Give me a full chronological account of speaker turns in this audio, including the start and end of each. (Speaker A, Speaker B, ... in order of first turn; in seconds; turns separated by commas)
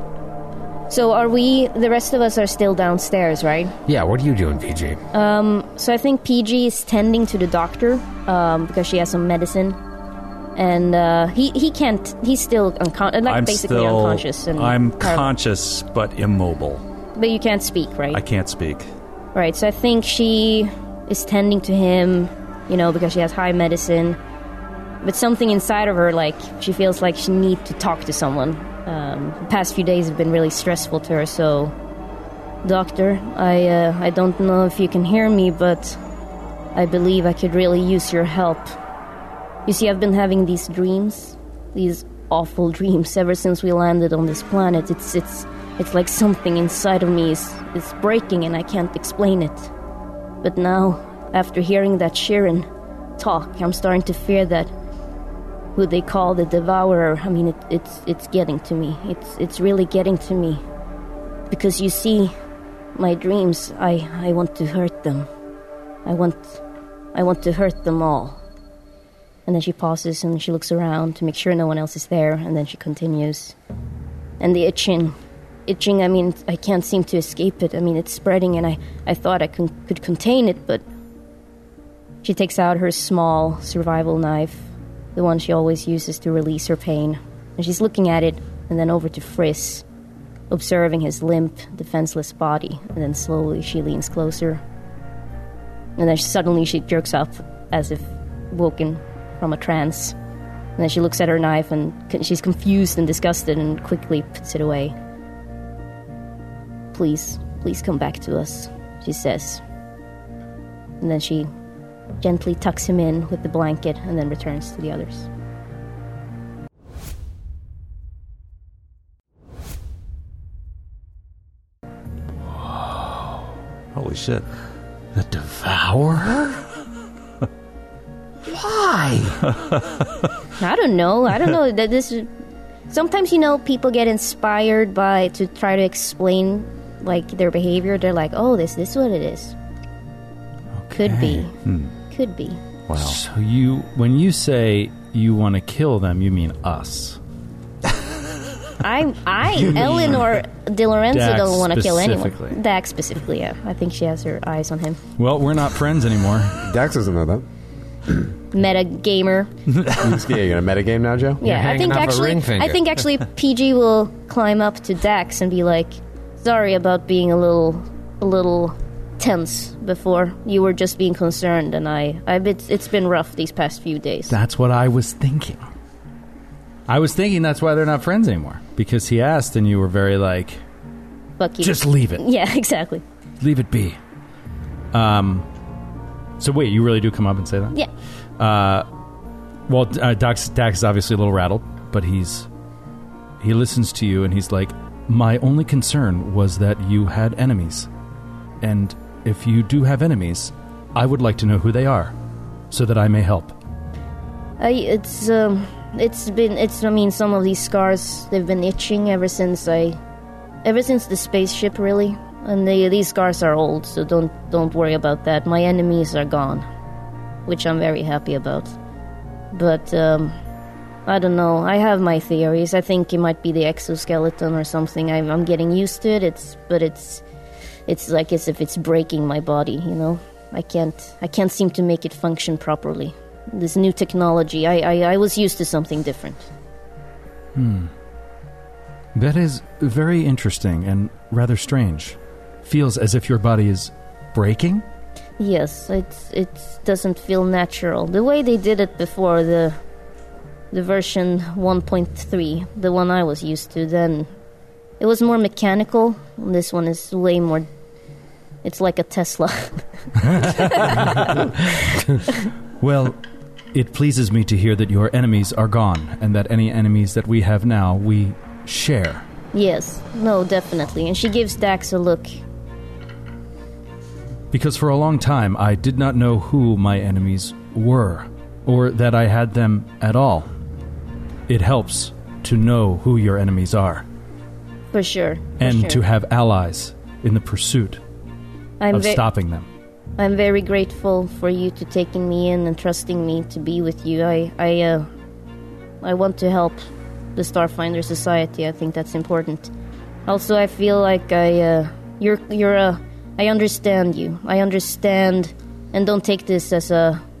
Speaker A: 0.9-3.7, Speaker B: 3.9-5.0, Speaker A: 5.1-9.8, Speaker A: 10.6-15.3, Speaker C: 13.2-16.8, Speaker A: 17.1-18.2, Speaker C: 18.1-18.9, Speaker A: 19.3-24.2, Speaker A: 25.0-31.7, Speaker A: 32.6-36.0, Speaker A: 36.7-38.7, Speaker A: 39.6-49.7, Speaker A: 50.4-54.7, Speaker A: 55.8-60.6, Speaker A: 61.5-62.3, Speaker A: 62.9-65.3, Speaker A: 66.0-66.6, Speaker A: 67.1-68.4, Speaker A: 69.5-73.5, Speaker A: 74.4-75.1, Speaker A: 75.7-80.8, Speaker A: 82.2-89.8, Speaker A: 90.5-94.6, Speaker A: 96.0-100.2, Speaker A: 100.8-104.9, Speaker A: 106.9-109.6, Speaker A: 111.0-111.5, Speaker A: 112.2-115.3, Speaker C: 123.9-124.5, Speaker B: 125.1-126.6, Speaker B: 128.4-129.4, Speaker A: 130.6-132.3, Speaker A: 132.9-139.5, Speaker D: 140.8-141.5, Speaker A: 140.9-141.5, Speaker C: 141.6-141.9, Speaker A: 142.1-142.6, Speaker C: 142.9-143.2, Speaker D: 143.0-147.2, Speaker A: 148.8-155.0, Speaker D: 149.6-150.4, Speaker D: 151.1-152.6, Speaker D: 155.2-156.6, Speaker E: 156.6-157.4, Speaker A: 158.5-159.5, Speaker E: 160.0-161.4, Speaker A: 161.4-174.3, Speaker B: 161.4-162.8, Speaker D: 174.3-175.7, Speaker D: 176.9-180.6, Speaker A: 181.4-183.0, Speaker D: 181.6-182.2, Speaker D: 183.4-184.0, Speaker D: 184.9-185.4, Speaker D: 186.4-187.8, Speaker D: 188.4-188.9, Speaker D: 189.7-192.5, Speaker D: 193.4-197.9, Speaker D: 198.6-202.1, Speaker D: 202.7-203.6, Speaker A: 204.6-210.0, Speaker A: 210.6-216.7, Speaker A: 217.4-218.7, Speaker A: 219.5-220.3, Speaker A: 221.1-227.2, Speaker A: 227.9-236.5, Speaker D: 237.5-237.9, Speaker D: 239.1-244.8, Speaker A: 245.4-249.8, Speaker A: 250.7-254.3, Speaker A: 255.0-257.7, Speaker A: 258.6-259.8, Speaker D: 260.2-261.3, Speaker A: 260.4-261.2, Speaker D: 262.8-263.2, Speaker D: 263.7-269.2, Speaker A: 269.5-272.3, Speaker D: 274.5-280.5, Speaker D: 281.5-284.0, Speaker A: 284.9-286.0, Speaker D: 285.6-288.0, Speaker A: 288.8-289.2, Speaker D: 288.9-289.7, Speaker A: 290.2-295.1, Speaker A: 296.0-296.8, Speaker A: 297.4-299.7, Speaker A: 300.2-307.2